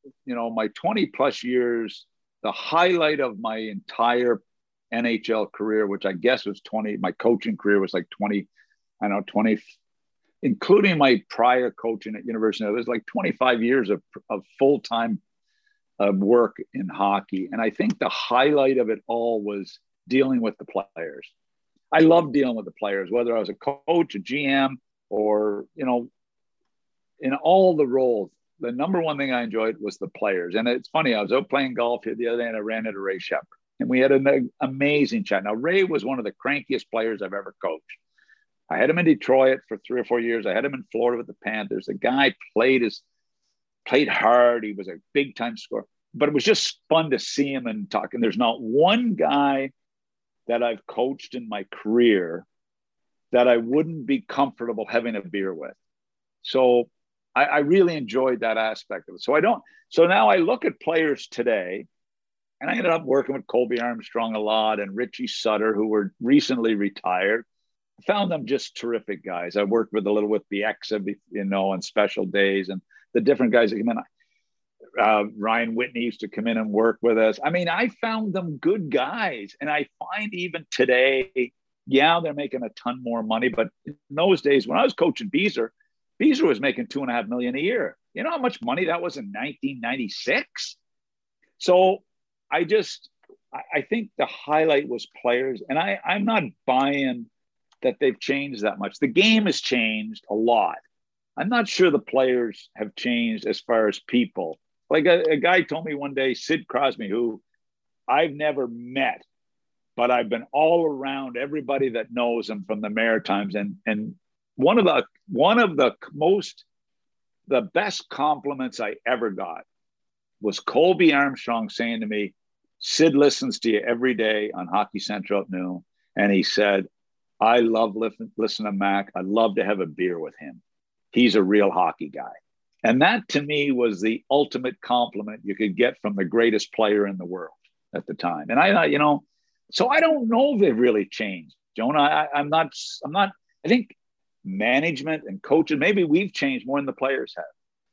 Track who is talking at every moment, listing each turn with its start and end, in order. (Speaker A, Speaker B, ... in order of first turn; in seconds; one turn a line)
Speaker A: 0.3-8.5
Speaker A: 9.0-9.7
Speaker A: 10.4-15.2
Speaker A: 16.0-21.3
Speaker A: 21.9-26.1
Speaker A: 27.2-38.0
Speaker A: 38.7-43.0
Speaker A: 43.9-49.7
Speaker A: 50.5-52.5
Speaker A: 53.3-55.8
Speaker A: 56.4-61.9
Speaker A: 62.6-67.5
Speaker A: 68.0-74.0
Speaker A: 75.0-90.8
Speaker A: 91.6-97.3
Speaker A: 97.8-100.8
Speaker A: 101.4-107.4
Speaker A: 108.1-109.2
Speaker A: 110.0-116.6
Speaker A: 117.5-119.7
Speaker A: 120.4-126.9
Speaker A: 127.4-130.6
Speaker A: 131.1-143.9
Speaker A: 144.4-147.5